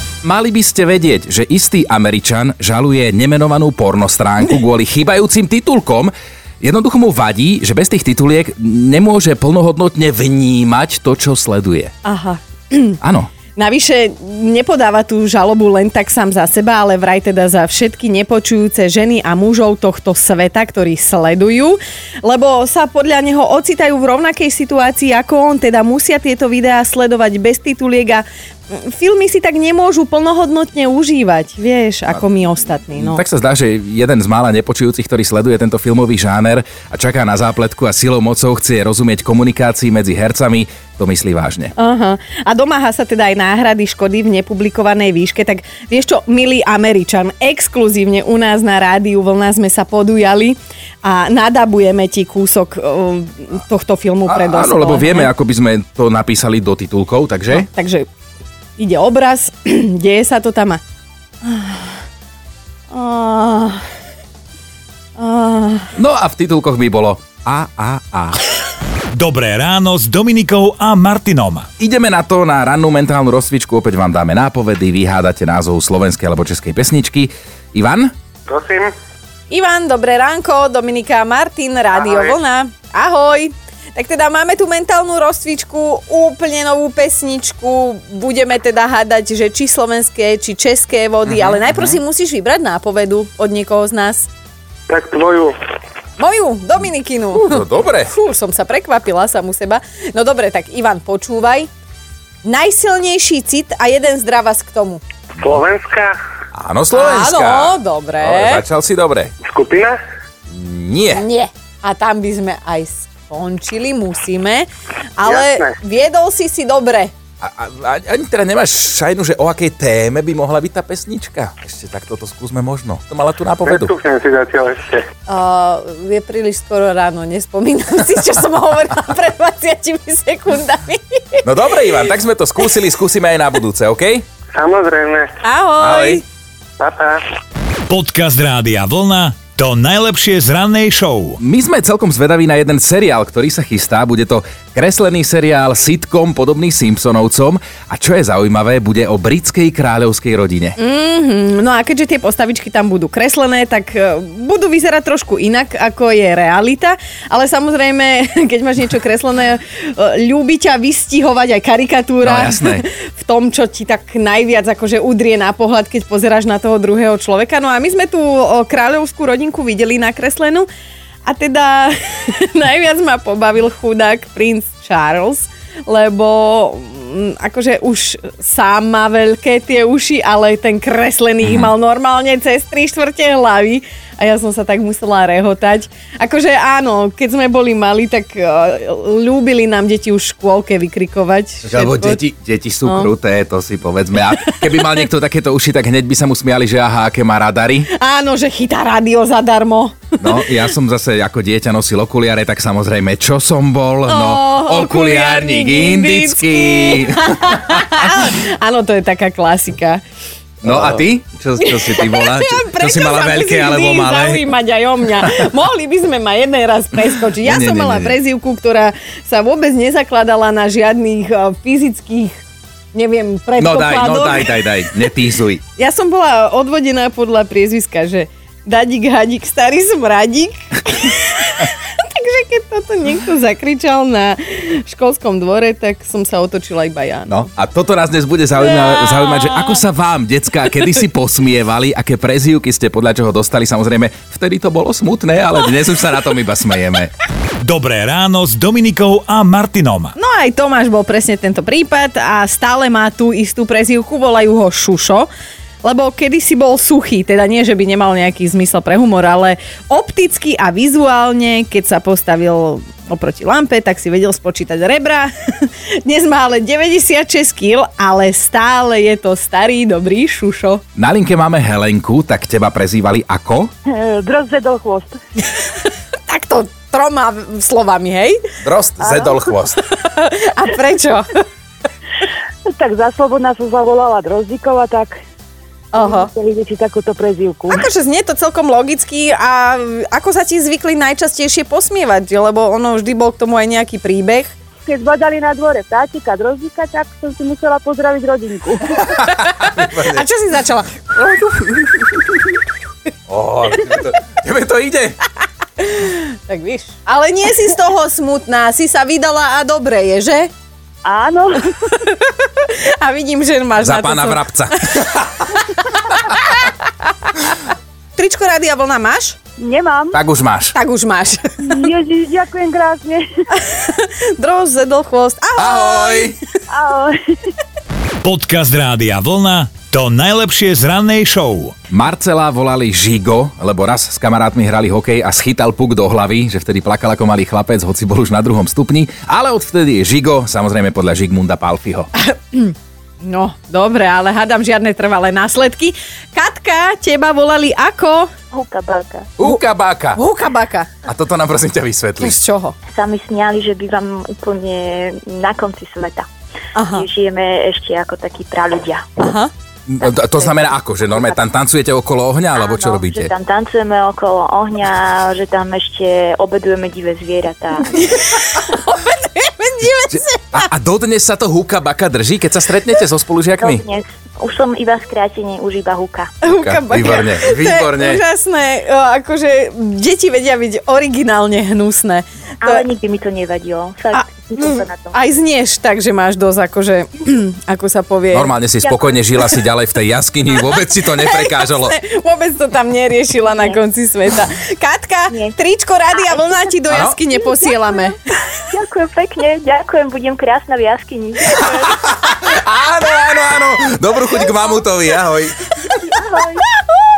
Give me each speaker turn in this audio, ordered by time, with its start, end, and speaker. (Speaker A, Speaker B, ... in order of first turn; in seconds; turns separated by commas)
Speaker A: 0.2-11.9, Speaker B: 12.1-13.0, Speaker A: 13.0-13.3, Speaker B: 13.6-33.2, Speaker A: 33.0-41.7, Speaker B: 41.8-55.3, Speaker A: 54.3-57.7, Speaker B: 57.5-58.1, Speaker B: 58.8-60.8, Speaker B: 61.4-62.0, Speaker B: 62.9-63.8, Speaker B: 65.2-65.9, Speaker A: 66.0-68.4, Speaker C: 69.1-71.7, Speaker A: 71.8-78.1, Speaker D: 78.5-78.9, Speaker B: 79.5-94.3, Speaker A: 91.3-92.0, Speaker D: 94.9-95.5, Speaker B: 96.2-101.7, Speaker A: 97.3-98.1, Speaker B: 102.4-105.0, Speaker D: 105.4-106.2, Speaker A: 106.5-109.3, Speaker B: 106.9-108.6, Speaker D: 109.5-110.0, Speaker A: 110.5-111.2, Speaker B: 111.1-117.1, Speaker D: 115.2-115.8, Speaker A: 117.4-123.9, Speaker D: 123.7-125.0, Speaker B: 125.3-131.4, Speaker A: 131.4-134.2, Speaker D: 134.5-135.3, Speaker B: 135.4-136.2, Speaker A: 135.8-136.2, Speaker D: 136.8-137.2, Speaker C: 137.9-141.4, Speaker A: 141.4-150.8, Speaker B: 150.8-170.7, Speaker A: 162.2-162.9, Speaker B: 171.3-192.2, Speaker A: 181.4-181.7, Speaker A: 191.6-197.9, Speaker B: 192.8-193.1, Speaker B: 194.5-194.8, Speaker B: 197.9-200.6, Speaker A: 200.2-208.0, Speaker B: 204.1-210.0, Speaker A: 210.6-214.4, Speaker B: 211.6-222.4, Speaker A: 217.4-218.2, Speaker B: 222.9-225.1, Speaker A: 223.6-225.6, Speaker B: 225.8-237.4, Speaker A: 237.3-247.1, Speaker B: 238.6-239.8, Speaker C: 247.6-250.1, Speaker B: 250.2-255.3, Speaker B: 255.8-270.8, Speaker A: 271.0-273.7, Speaker E: 273.9-275.1, Speaker B: 275.5-278.4, Speaker A: 278.6-279.8, Speaker B: 279.8-281.4, Speaker E: 282.8-285.2, Speaker B: 285.9-286.3, Speaker E: 286.3-287.7, Speaker B: 287.7-294.5, Speaker E: 294.9-298.9, Speaker A: 299.4-300.2, Speaker B: 299.4-302.3, Speaker A: 303.3-305.2, Speaker B: 305.9-310.5, Speaker D: 311.1-311.6, Speaker E: 311.1-311.4, Speaker B: 312.0-317.6, Speaker A: 313.8-315.4, Speaker B: 318.2-319.4, Speaker E: 319.6-320.1, Speaker A: 320.1-320.8, Speaker B: 320.7-321.8, Speaker E: 321.6-323.2, Speaker B: 323.6-326.3, Speaker A: 325.6-326.4, Speaker E: 326.7-327.1, Speaker C: 328.2-331.8, Speaker A: 331.9-342.1, Speaker B: 342.2-348.3, Speaker F: 348.5-349.3, Speaker A: 349.4-350.2, Speaker B: 350.1-350.9, Speaker A: 351.0-352.4, Speaker B: 352.2-352.8, Speaker F: 352.9-356.2, Speaker B: 356.8-357.1, Speaker F: 356.9-359.1, Speaker B: 359.2-359.5, Speaker A: 359.9-363.3, Speaker F: 362.6-368.0, Speaker B: 367.9-370.6, Speaker A: 370.1-373.9, Speaker F: 373.6-376.3, Speaker B: 376.4-382.9, Speaker A: 376.5-378.2, Speaker F: 382.6-385.2, Speaker B: 384.1-388.5, Speaker A: 388.3-392.0, Speaker F: 388.8-389.2, Speaker B: 390.8-398.2, Speaker F: 393.5-393.8, Speaker F: 395.3-395.6, Speaker F: 396.1-398.1, Speaker A: 396.9-397.2, Speaker F: 398.6-402.0, Speaker A: 401.5-405.8, Speaker F: 406.1-406.6